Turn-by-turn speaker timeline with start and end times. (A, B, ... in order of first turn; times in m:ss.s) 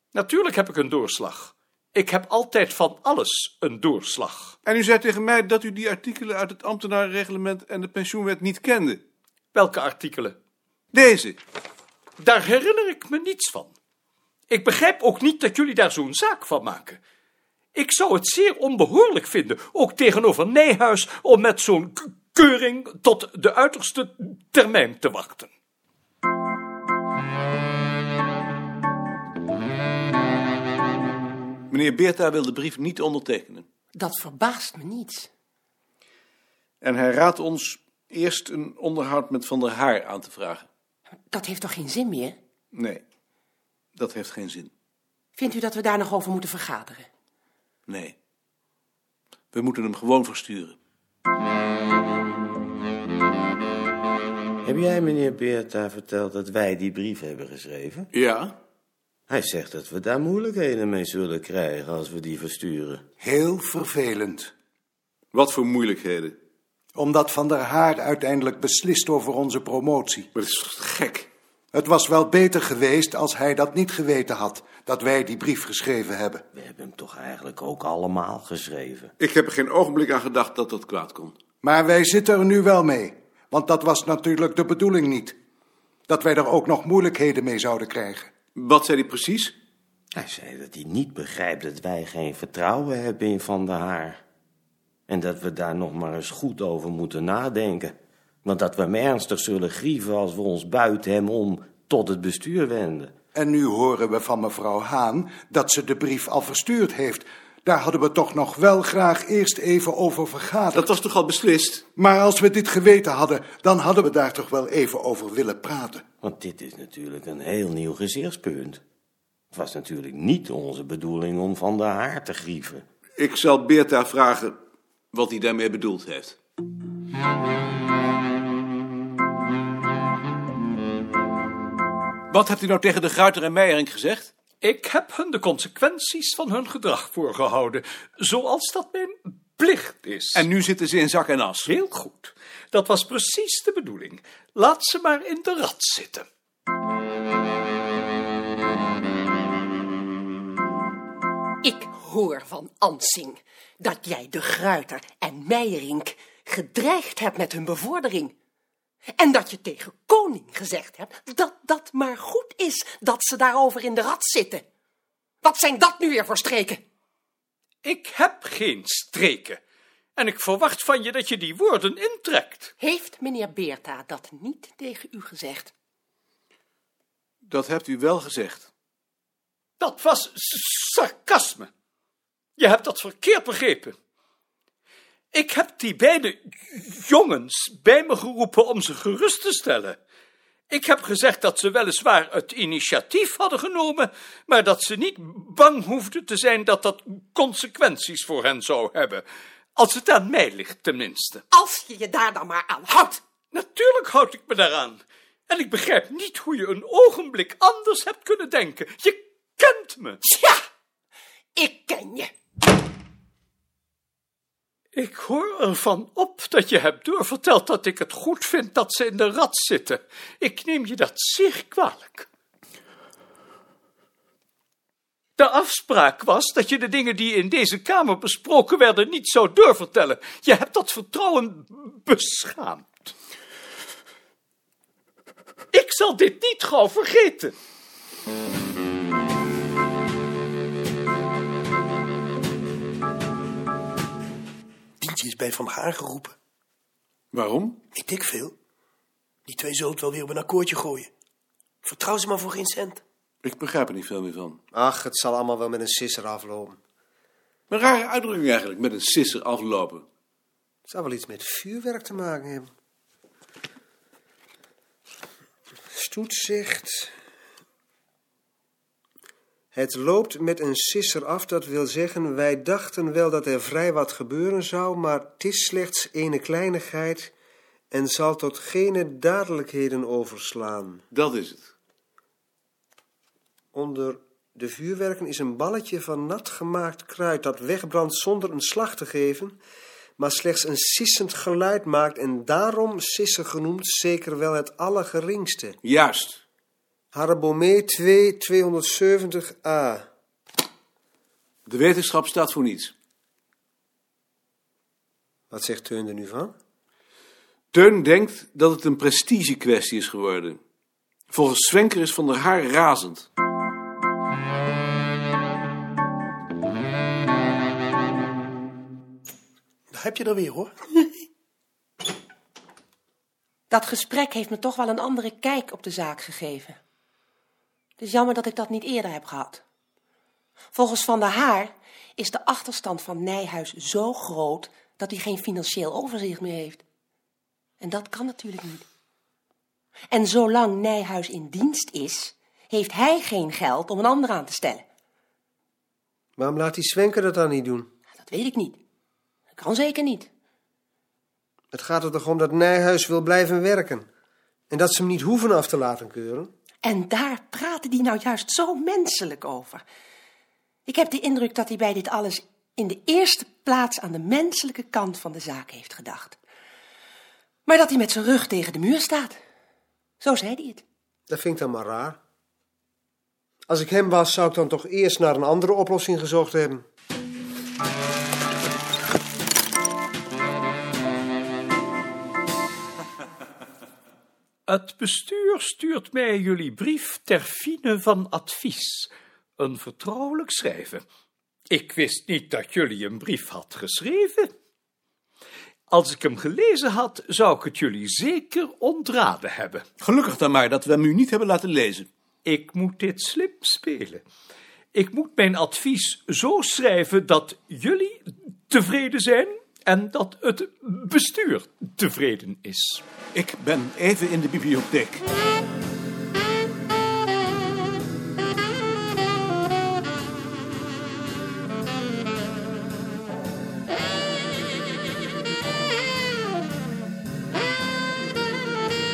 0:00.1-0:04.6 A
0:04.6-0:09.0 B
0:09.5-0:10.3 A
0:10.9-0:11.4 B
0:12.2-0:13.7 A
0:14.5-0:17.0 A
0:17.7-0:25.5 A
0:31.7-0:33.6 B
0:34.0-0:35.3 C
0:36.8-0:40.6 B
0:41.3-0:42.4 C
0:42.7-0:43.0 B
0:44.0-0:44.7 B
0:45.3-0:47.1 C
0:47.9-0:48.1 B
0:49.5-0:50.7 B
0:54.6-0:58.1 D
0:58.1-0:58.5 B
0:59.3-1:03.0 D
1:03.2-1:04.5 E
1:05.3-1:06.3 B
1:06.9-1:10.3 E
1:10.3-1:11.3 B
1:11.7-1:16.4 E
1:16.5-1:19.1 D
1:19.2-1:21.4 B
1:21.6-1:25.4 E
1:26.1-1:28.3 E
1:28.6-1:29.5 B
1:30.2-1:34.2 D
1:35.1-1:43.1 D
1:43.3-1:50.9 E
1:50.7-1:51.8 B
1:52.0-1:56.0 E
1:56.2-1:58.8 D
1:59.5-2:02.8 D
2:03.2-2:04.5 B
2:05.1-2:06.4 B
2:12.3-2:14.3 B
2:14.6-2:20.5 A
2:20.3-2:21.7 B
2:21.7-2:26.2 A
2:31.6-2:38.3 C
2:39.2-2:44.6 C
2:45.4-2:46.8 C
2:47.8-2:49.6 A
2:50.2-2:52.7 A
2:52.8-2:55.7 C
2:57.5-2:58.7 B
2:59.8-3:01.7 A
3:02.6-3:03.9 A
3:05.3-3:10.0 A
3:10.7-3:19.2 A
3:19.8-3:21.4 A
3:21.5-3:23.2 C
3:23.5-3:30.2 A
3:30.2-3:30.6 C
3:31.6-3:32.3 C
3:34.9-3:42.3 A
3:45.4-3:53.1 A
3:55.7-3:57.5 A
4:05.0-4:06.3 F
4:07.3-4:07.8 B
4:08.0-4:08.5 F
4:09.5-4:11.1 F
4:11.9-4:13.0 F
4:13.4-4:14.6 B
4:14.7-4:16.8 G
4:17.7-4:20.0 B
4:20.9-4:22.7 G
4:25.9-4:27.1 G
4:29.7-4:37.3 G
4:37.9-4:41.0 G
4:41.1-4:41.7 B
4:43.7-4:49.6 G
4:50.2-4:55.8 G
4:55.8-4:56.4 B
4:57.1-5:00.0 G
5:01.7-5:02.9 B
5:05.5-5:06.5 G
5:07.7-5:10.6 B
5:11.3-5:13.2 B
5:19.9-5:20.7 F
5:23.7-5:26.8 C
5:28.0-5:29.6 C
5:30.7-5:36.8 C
5:37.8-5:38.8 C
5:40.1-5:44.8 C
5:46.4-5:47.9 G
5:48.2-5:48.8 C
5:49.6-5:50.3 C
5:51.7-5:54.0 G
5:54.7-5:56.5 G
5:56.8-5:59.8 C
6:00.8-6:06.4 C
6:07.6-6:09.4 C
6:10.2-6:10.8 C
6:11.3-6:12.2 G
6:13.7-6:16.8 G
6:24.7-6:31.0 A
6:31.7-6:34.5 A
6:35.9-6:39.8 A
6:40.0-6:42.1 B
6:42.4-6:44.2 A
6:44.9-6:53.0 A
6:53.3-6:55.2 B